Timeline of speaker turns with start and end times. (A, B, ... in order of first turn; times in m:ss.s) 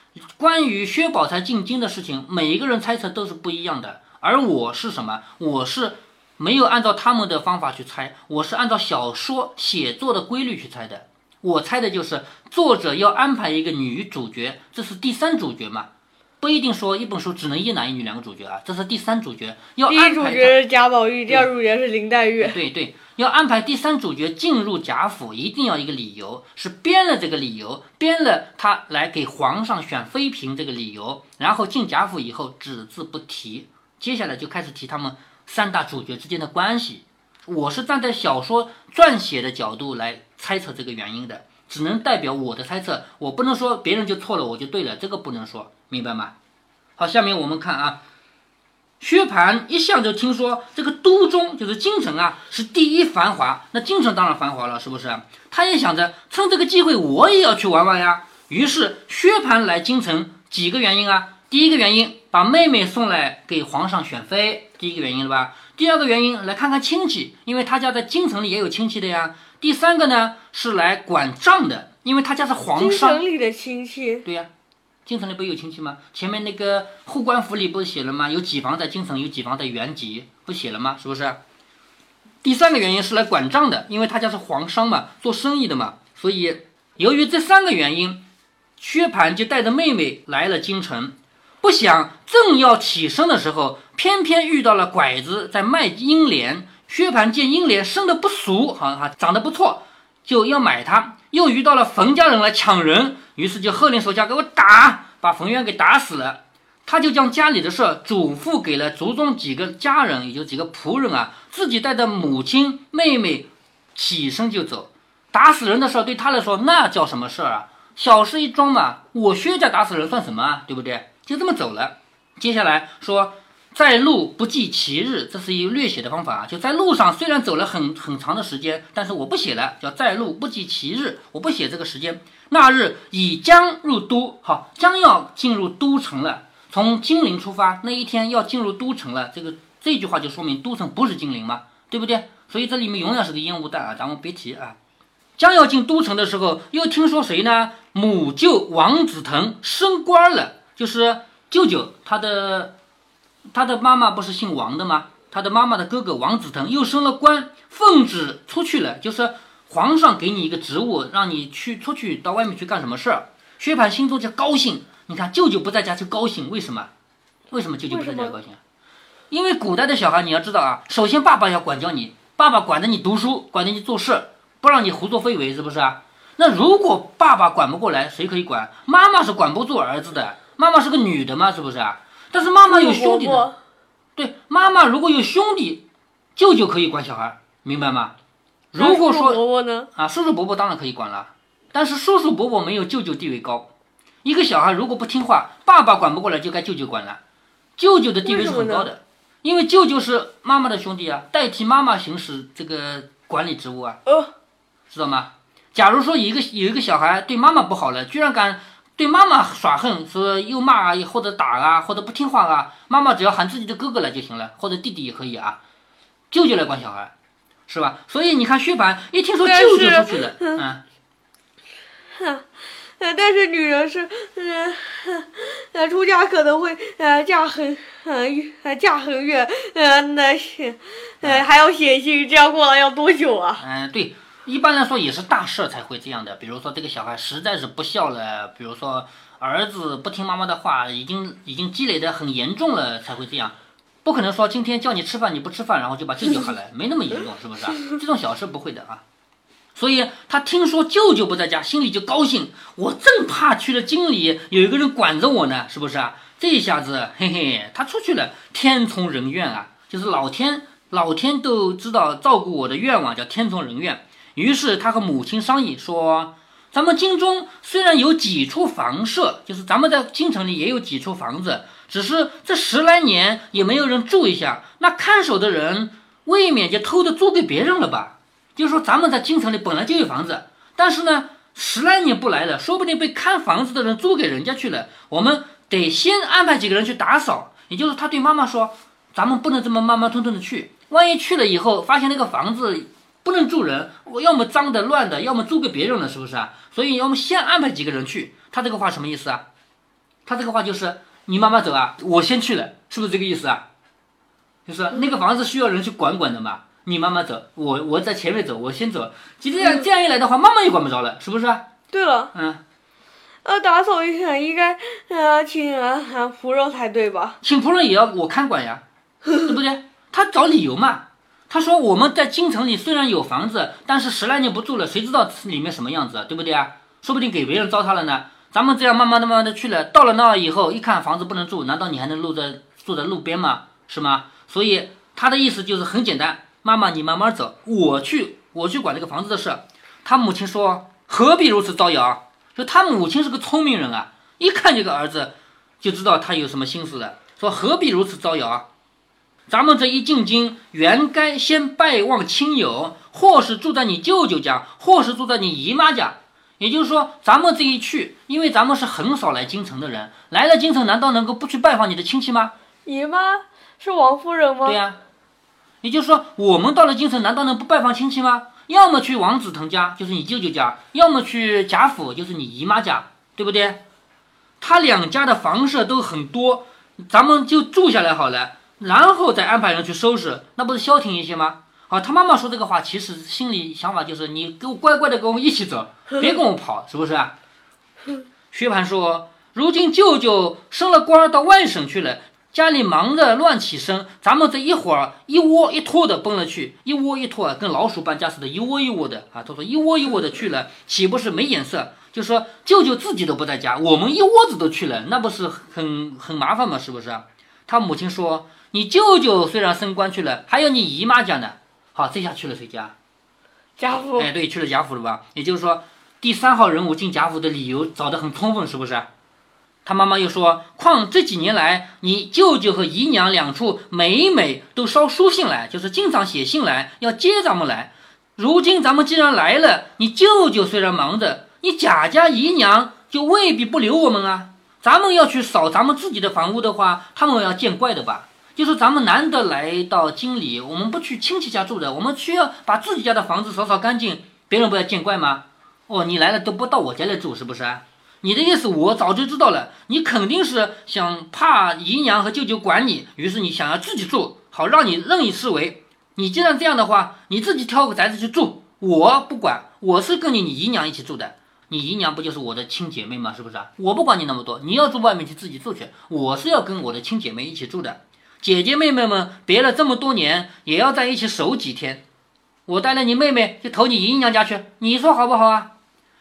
0:00.4-0:15.9 A
0:16.4-0:20.6 A
0:19.9-0:22.6 B
0:22.4-0:46.3 A
0:47.0-0:48.0 A
0:49.0-1:13.2 A
1:12.8-1:14.2 B
1:15.0-1:21.4 A
1:22.4-1:28.2 A
1:28.8-2:24.8 A
2:25.4-2:32.7 A
2:33.5-2:46.9 A
2:47.5-2:48.6 A
2:47.9-2:48.4 B
2:49.3-3:03.5 A
3:02.7-3:03.6 B
3:04.2-3:08.1 A
3:08.7-3:09.4 A
3:08.8-3:09.9 B
3:09.9-3:13.7 A
3:14.2-3:17.2 A
3:17.8-3:24.0 A
3:18.2-3:18.9 B
3:24.0-3:24.3 B
3:24.9-3:35.6 A
3:36.3-3:37.1 A
3:37.7-3:40.8 A
3:39.4-3:40.6 B
3:42.1-3:53.6 B
3:53.6-4:09.0 A
4:09.7-4:59.4 A
5:00.2-5:03.6 A
5:04.6-5:11.7 A
5:11.9-5:12.3 B
5:12.3-5:12.6 A
5:13.4-5:17.4 B
5:17.4-5:18.8 A
5:19.4-5:48.6 A
5:49.5-6:02.5 A
6:02.8-6:04.8 B
6:04.6-6:05.0 A
6:05.8-6:13.8 A
6:14.6-6:27.3 A
6:28.5-6:52.9 A
6:53.8-6:54.3 B
6:54.2-6:59.1 A
6:59.8-7:52.0 A
7:52.7-7:55.7 A